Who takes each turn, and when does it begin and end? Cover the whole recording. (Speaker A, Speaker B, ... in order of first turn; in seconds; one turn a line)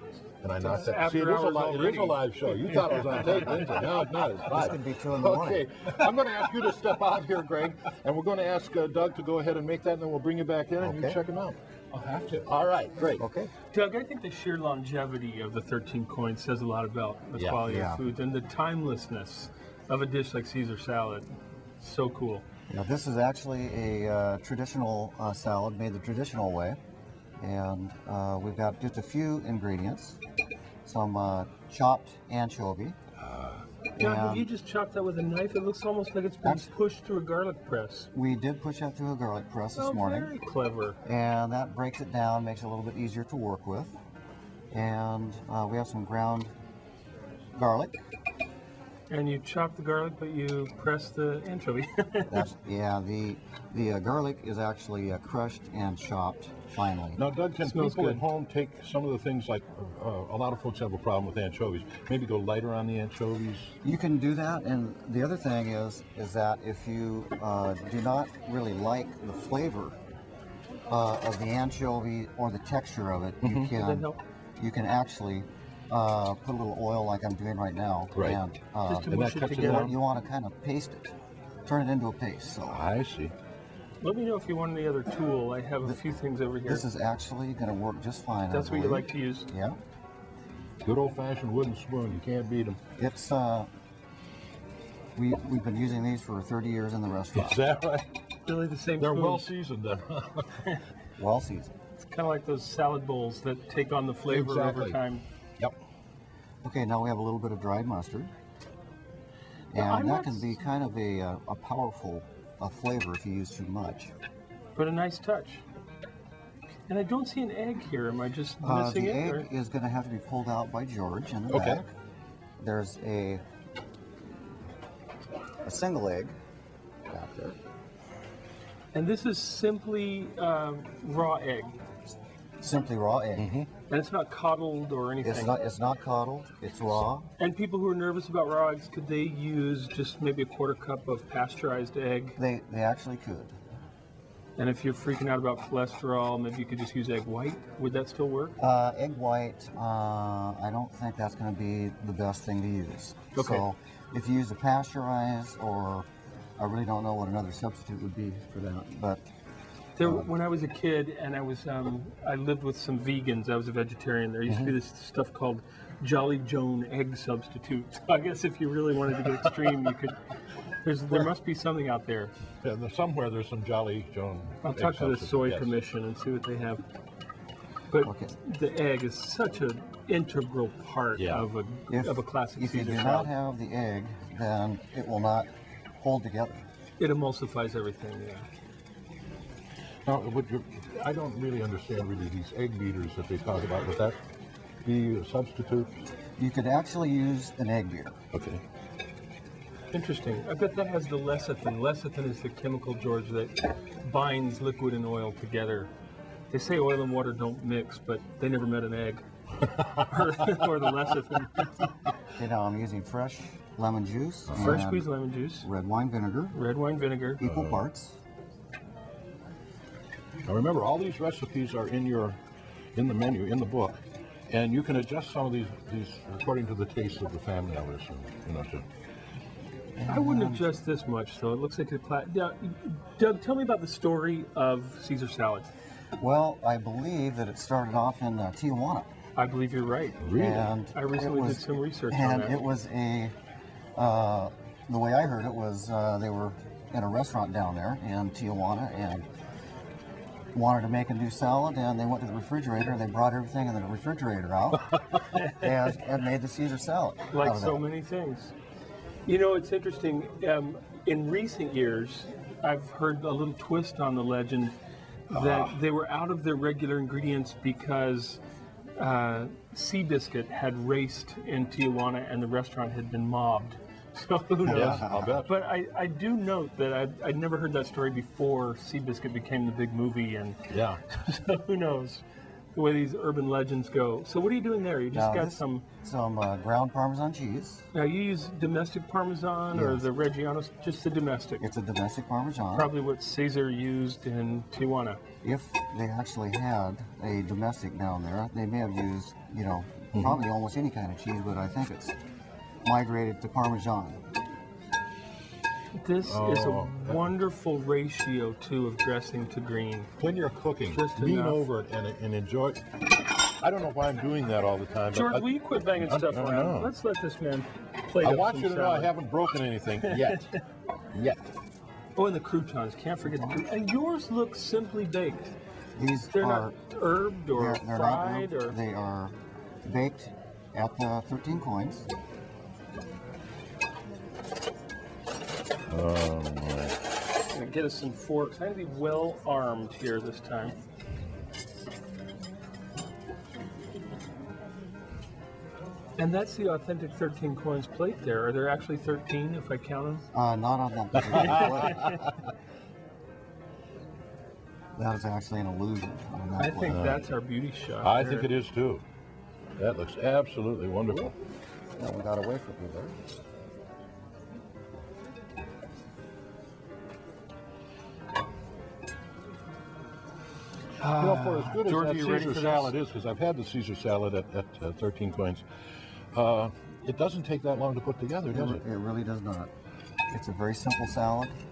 Speaker A: 0.4-13.2
Speaker B: 0.6-3.9
Speaker C: 4.5-5.7
Speaker C: 10.8-11.2
Speaker C: 13.2-13.5
Speaker B: 13.7-21.3
Speaker A: 17.4-17.6
Speaker C: 17.6-18.1
Speaker B: 21.8-22.4
Speaker C: 22.7-26.8
Speaker C: 27.4-30.2
Speaker C: 30.9-33.0
Speaker A: 33.2-33.6
Speaker C: 34.0-34.5
Speaker B: 34.0-38.1
Speaker C: 36.4-36.7
Speaker C: 38.1-40.3
Speaker B: 39.7-41.0
Speaker C: 41.0-44.0
Speaker C: 44.7-46.5
Speaker C: 47.5-48.0
Speaker B: 49.1-52.5
Speaker C: 52.3-57.2
Speaker A: 57.2-63.7
Speaker B: 57.6-58.2
Speaker C: 63.8-70.0
Speaker C: 70.9-74.1
Speaker A: 73.4-73.7
Speaker B: 73.7-74.2
Speaker C: 74.6-81.1
Speaker A: 78.1-78.4
Speaker B: 78.9-80.0
Speaker A: 79.0-80.0
Speaker C: 81.7-82.8
Speaker A: 82.7-83.3
Speaker B: 84.0-86.8
Speaker C: 86.7-89.8
Speaker B: 88.5-89.5
Speaker A: 90.8-92.8
Speaker C: 93.0-93.7
Speaker C: 95.2-97.6
Speaker A: 97.3-98.0
Speaker B: 98.5-99.5
Speaker A: 99.0-100.6
Speaker C: 101.2-101.7
Speaker B: 102.0-105.2
Speaker A: 104.3-105.0
Speaker C: 106.6-108.3
Speaker C: 109.7-114.1
Speaker B: 109.7-110.6
Speaker B: 114.8-115.6
Speaker B: 116.9-119.5
Speaker C: 118.6-121.9
Speaker A: 121.5-121.8
Speaker C: 122.6-123.4
Speaker C: 125.6-126.3
Speaker C: 127.1-127.6
Speaker B: 128.9-131.8
Speaker C: 132.6-133.5
Speaker A: 133.4-133.7
Speaker B: 133.9-135.6
Speaker C: 135.2-137.3
Speaker B: 137.4-142.4
Speaker C: 142.4-143.5
Speaker B: 144.6-148.6
Speaker C: 148.6-156.1
Speaker B: 153.3-153.7
Speaker C: 156.6-159.2
Speaker B: 159.9-170.2
Speaker C: 160.0-160.3
Speaker A: 164.5-164.7
Speaker B: 170.8-172.3
Speaker A: 172.6-175.7
Speaker B: 174.6-176.8
Speaker B: 177.9-183.3
Speaker C: 178.0-178.3
Speaker A: 181.2-181.4
Speaker C: 181.9-185.5
Speaker C: 186.0-186.6
Speaker B: 187.0-188.4
Speaker A: 190.1-194.2
Speaker A: 194.8-195.9
Speaker C: 196.4-198.1
Speaker A: 198.3-198.6
Speaker B: 199.9-205.9
Speaker B: 206.5-209.2
Speaker B: 210.0-211.7
Speaker C: 212.4-215.1
Speaker A: 214.5-214.8
Speaker B: 214.6-215.7
Speaker C: 215.6-216.5
Speaker B: 216.5-217.4
Speaker C: 217.4-218.2
Speaker A: 217.4-217.8
Speaker A: 220.5-222.4
Speaker A: 222.9-224.0
Speaker A: 224.5-228.8
Speaker C: 230.0-230.7
Speaker B: 230.1-235.7
Speaker C: 236.2-239.1
Speaker B: 239.3-240.2
Speaker A: 240.2-240.7
Speaker C: 240.3-243.3
Speaker B: 240.9-242.6
Speaker C: 243.9-249.2
Speaker C: 250.5-254.9
Speaker B: 255.3-255.6
Speaker C: 255.5-257.8
Speaker B: 257.3-258.5
Speaker B: 259.2-264.8
Speaker B: 265.3-268.4
Speaker A: 265.3-265.8
Speaker B: 269.0-282.2
Speaker C: 274.6-275.4
Speaker A: 274.6-275.5
Speaker A: 280.7-281.0
Speaker B: 282.7-285.8
Speaker C: 285.1-287.8
Speaker B: 287.9-291.6
Speaker C: 289.7-290.0
Speaker C: 291.6-292.9
Speaker B: 292.7-295.2
Speaker C: 295.4-302.1
Speaker A: 300.1-300.4
Speaker C: 302.8-304.2
Speaker B: 306.0-310.1
Speaker A: 306.2-307.3
Speaker A: 310.2-312.8
Speaker B: 310.9-311.6
Speaker A: 313.6-316.9
Speaker B: 315.1-319.1
Speaker A: 318.2-320.4
Speaker B: 320.1-320.4
Speaker A: 321.1-321.4
Speaker B: 322.1-325.5
Speaker C: 323.2-323.6
Speaker C: 326.0-326.8
Speaker B: 326.3-328.8
Speaker C: 327.5-332.1
Speaker A: 335.9-336.9
Speaker B: 337.5-340.8
Speaker B: 346.2-350.2
Speaker C: 350.3-352.2
Speaker A: 351.2-352.0
Speaker B: 351.4-352.1
Speaker C: 354.9-357.3
Speaker B: 356.6-358.5
Speaker A: 356.9-357.2
Speaker A: 358.0-359.0
Speaker A: 359.8-361.3
Speaker C: 362.0-363.1
Speaker B: 371.0-372.9
Speaker A: 371.2-375.6
Speaker A: 376.3-378.8
Speaker C: 378.5-379.7
Speaker C: 380.3-381.5